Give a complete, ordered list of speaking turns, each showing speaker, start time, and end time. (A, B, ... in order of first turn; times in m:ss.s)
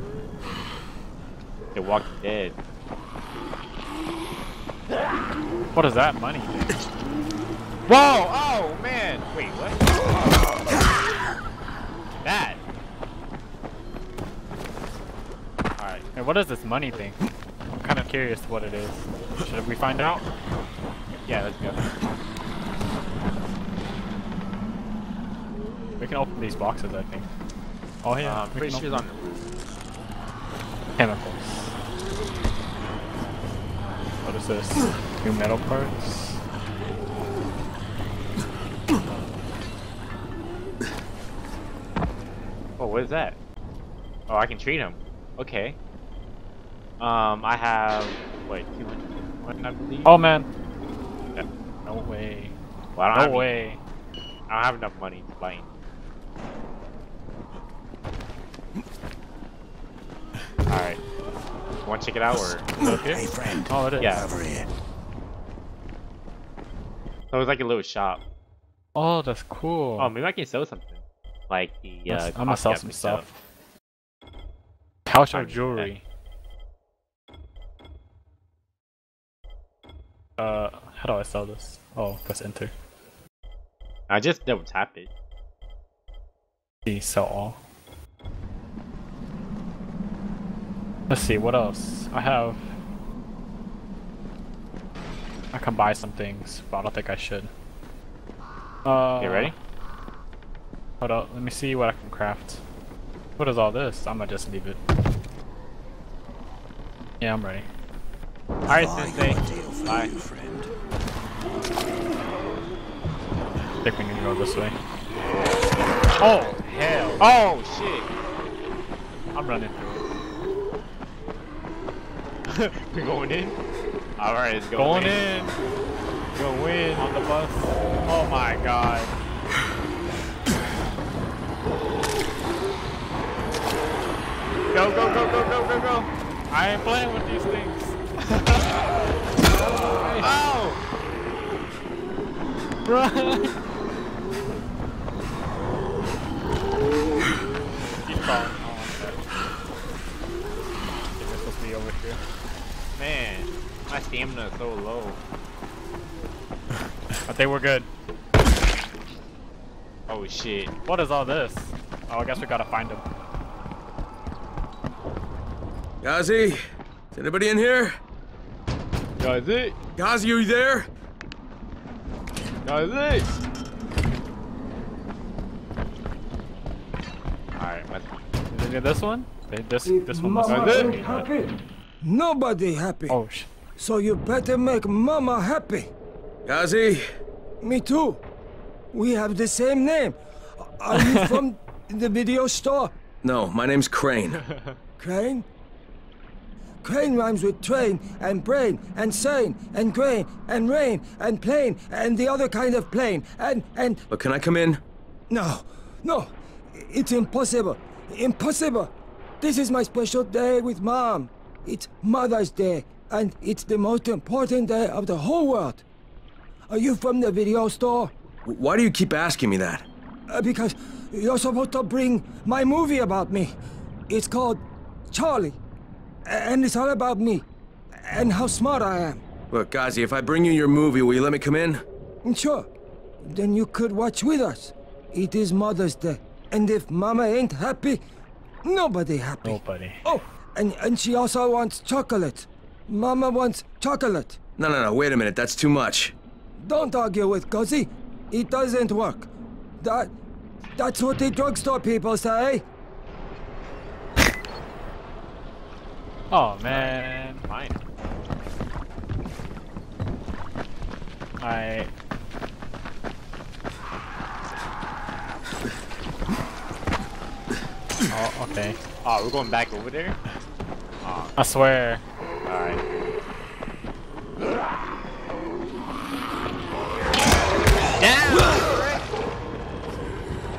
0:01.8-0:02.6 A
0:05.7-0:06.8 B
0:07.9-0:09.8 A
0:12.2-0:12.6 A
0:15.8-0:16.1 A
0:16.2-0:17.2 B
0:17.8-0:20.3 B
0:21.3-0:21.8 A
0:26.0-0:27.3 B
0:28.0-0:29.0 B
0:28.2-0:29.4 A
0:31.0-0:31.7 B
0:34.2-0:36.4 B
0:42.8-0:43.4 A
0:44.3-0:45.8 A
0:47.0-0:50.1 A
0:50.0-0:50.5 B
0:51.8-0:52.6 B
0:53.0-0:53.6 A
0:53.1-0:53.8 B
0:54.5-0:55.7 A
1:00.7-1:01.0 A
1:01.8-1:02.7 A
1:02.8-1:04.3 B
1:03.1-1:04.7 C
1:04.0-1:04.3 A
1:07.3-1:08.2 A
1:09.0-1:10.1 B
1:10.0-1:13.3 A
1:12.1-1:13.4 B
1:15.1-1:16.0 B
1:15.3-1:15.9 A
1:20.4-1:22.7 B
1:24.1-1:25.1 A
1:26.9-1:27.6 B
1:31.1-1:32.7 B
1:35.5-1:37.5 B
1:38.8-1:39.5 B
1:39.2-1:39.5 A
1:41.0-1:42.6 B
1:43.4-1:44.8 B
1:47.2-1:47.7 B
1:48.7-1:50.7 C
1:48.7-1:50.2 A
1:53.8-1:54.8 B
1:56.2-1:57.2 B
1:57.2-1:58.1 A
1:59.3-2:00.0 B
2:02.5-2:03.6 A
2:04.2-2:05.3 A
2:04.8-2:05.6 B
2:06.4-2:09.1 B
2:06.9-2:07.2 A
2:14.7-2:16.1 A
2:16.5-2:18.0 B
2:18.3-2:18.7 A
2:19.6-2:20.3 B
2:20.0-2:20.8 A
2:22.9-2:23.6 B
2:28.0-2:29.2 B
2:31.2-2:32.2 B
2:33.0-2:35.2 A
2:37.3-2:37.9 B
2:40.1-2:40.7 A
2:40.8-2:43.0 B
2:46.0-2:46.6 D
2:47.1-2:48.0 D
2:49.2-2:49.8 A
2:50.0-2:50.9 D
2:52.6-2:53.3 A
2:57.6-2:58.3 A
2:58.5-3:01.3 B
2:59.9-3:01.5 E
3:00.5-3:01.1 A
3:02.0-3:03.2 E
3:03.1-3:03.5 B
3:03.8-3:05.9 E
3:06.5-3:07.0 D
3:07.6-3:08.2 E
3:08.9-3:13.0 E
3:10.9-3:11.4 B
3:13.2-3:14.5 D
3:15.0-3:15.4 E
3:16.8-3:24.0 E
3:24.1-3:24.8 D
3:25.3-3:35.8 E
3:36.7-3:38.1 E
3:38.5-3:39.9 D
3:40.3-3:43.6 E
3:44.1-3:45.6 E
3:46.3-3:49.2 E
3:49.5-3:51.8 D
3:52.2-3:52.7 E
3:53.2-3:58.0 E
3:58.6-4:04.4 E
3:59.4-4:00.0 B
4:04.6-4:06.2 D
4:06.6-4:09.3 E
4:09.8-4:10.1 E
4:10.8-4:12.6 E
4:16.3-4:17.4 B
4:16.6-4:17.8 A
4:21.4-4:21.9 B
4:28.1-4:28.8 B
4:29.0-4:30.2 A
4:31.0-4:31.4 A
4:31.4-4:32.0 B
4:32.5-4:32.8 A
4:38.0-4:39.1 A